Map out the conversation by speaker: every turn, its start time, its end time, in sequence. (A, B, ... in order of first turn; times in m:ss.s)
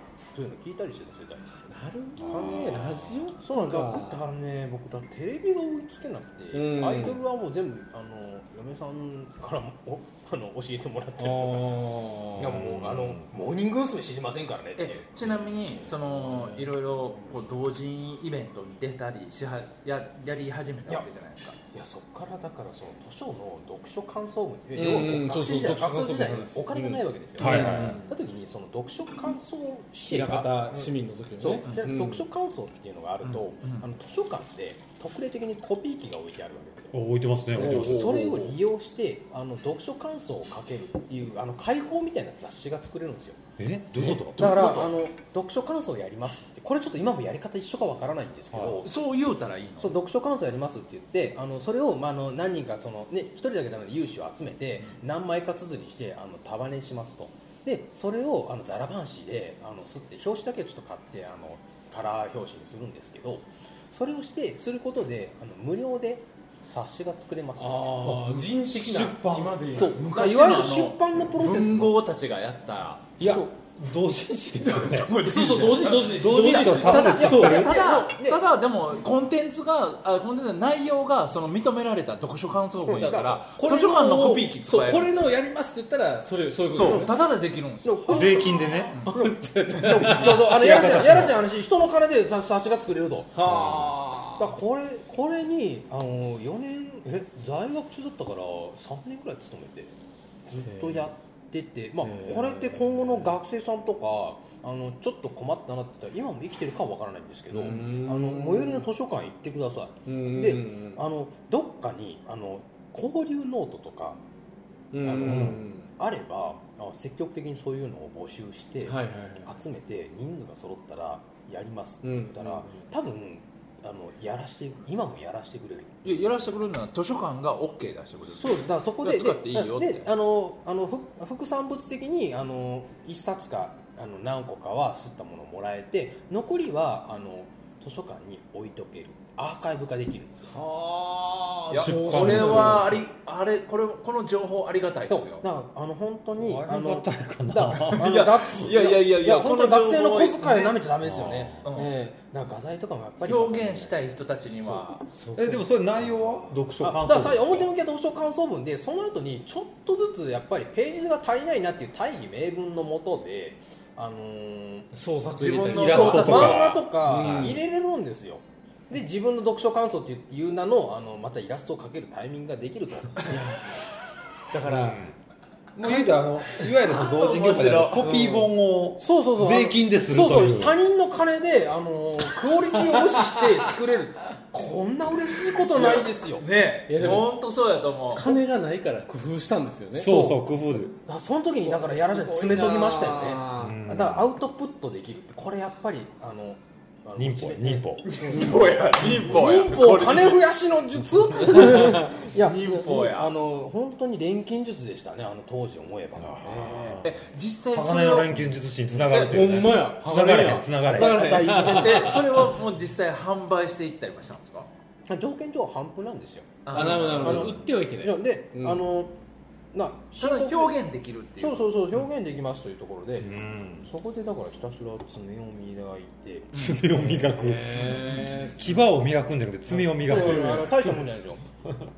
0:00.4-0:01.4 A
0:01.6-0:04.2 B
0:02.2-0:03.3 C
0:02.3-0:02.8 A
0:03.4-0:15.1 A
0:06.5-0:07.2 B
0:11.2-0:12.6 B
0:12.4-0:13.3 C
0:14.8-0:21.6 D
0:16.1-0:16.7 B
0:21.7-0:37.0 A
0:24.8-0:28.1 B
0:27.4-0:28.0 C
0:30.0-0:32.2 B
0:33.2-0:33.8 D
0:36.9-0:38.5 C
0:37.5-0:43.4 A
0:37.6-0:38.5 B
0:43.6-0:44.9 C
0:44.0-0:48.9 A
0:48.5-0:48.8 C
0:48.8-0:50.0 D
0:49.8-1:08.0 A
1:07.6-1:10.1 B
1:08.0-1:09.8 C
1:09.8-1:12.0 A
1:09.8-1:13.1 D
1:13.2-1:15.2 C
1:13.2-1:13.5 A
1:14.6-1:25.3 D
1:15.2-1:17.7 B
1:16.0-1:17.8 C
1:16.4-1:18.4 A
1:22.9-1:23.4 A
1:23.0-1:27.1 B
1:26.7-1:29.1 D
1:26.8-1:27.1 A
1:27.8-1:28.8 A
1:28.1-1:29.0 C
1:29.0-1:31.2 B
1:29.7-1:33.3 A
1:30.5-1:31.4 C
1:33.3-1:34.6 B
1:33.4-1:33.9 C
1:34.4-1:40.0 A
1:40.5-1:54.2 A
1:40.6-1:41.1 B
1:42.0-1:43.4 B
1:47.5-1:48.9 B
1:50.1-1:51.0 B
1:54.9-1:55.9 B
1:55.0-2:06.2 A
1:55.2-1:55.6 C
1:58.8-1:59.5 B
2:02.0-2:02.8 B
2:06.0-2:10.1 D
2:08.3-2:20.6 A
2:20.5-2:22.9 B
2:21.7-2:25.4 D
2:21.8-2:23.0 C
2:25.1-2:34.0 A
2:26.4-2:28.7 C
2:28.0-2:30.8 D
2:31.0-2:31.6 C
2:31.6-2:31.9 D
2:33.2-2:35.0 D
2:35.2-2:36.6 B
2:35.4-2:37.7 C
2:36.8-2:44.9 A
2:44.9-2:47.6 B
2:45.3-2:47.5 D
2:45.7-2:46.8 C
2:45.9-2:53.5 A
2:53.3-2:53.8 B
2:54.5-2:55.0 B
2:54.6-2:55.2 C
2:55.8-3:00.8 C
2:55.8-2:58.1 D
2:58.0-2:58.5 B
2:59.0-3:06.4 A
3:05.7-3:08.4 D
3:06.9-3:07.3 B
3:08.1-3:10.3 B
3:09.9-3:11.0 C
3:10.1-3:10.3 A
3:11.1-3:18.4 A
3:11.6-3:13.8 B
3:13.5-3:14.3 C
3:17.2-3:18.2 C
3:18.0-3:20.5 D
3:19.2-3:27.0 A
3:21.4-3:23.4 D
3:26.2-3:31.5 C
3:27.0-3:30.5 D
3:29.2-3:32.5 B
3:30.7-3:32.2 A
3:31.5-3:34.7 D
3:35.1-3:39.2 A
3:36.6-3:37.6 D
3:36.7-3:38.8 B
3:39.7-3:40.8 A
3:40.2-3:41.8 D
3:41.4-3:46.5 A
3:43.2-3:43.9 C
3:46.5-3:46.8 D
3:46.5-3:51.0 C
3:47.1-3:48.9 B
3:47.9-3:48.4 D
3:49.7-3:50.6 B
3:50.0-3:51.4 A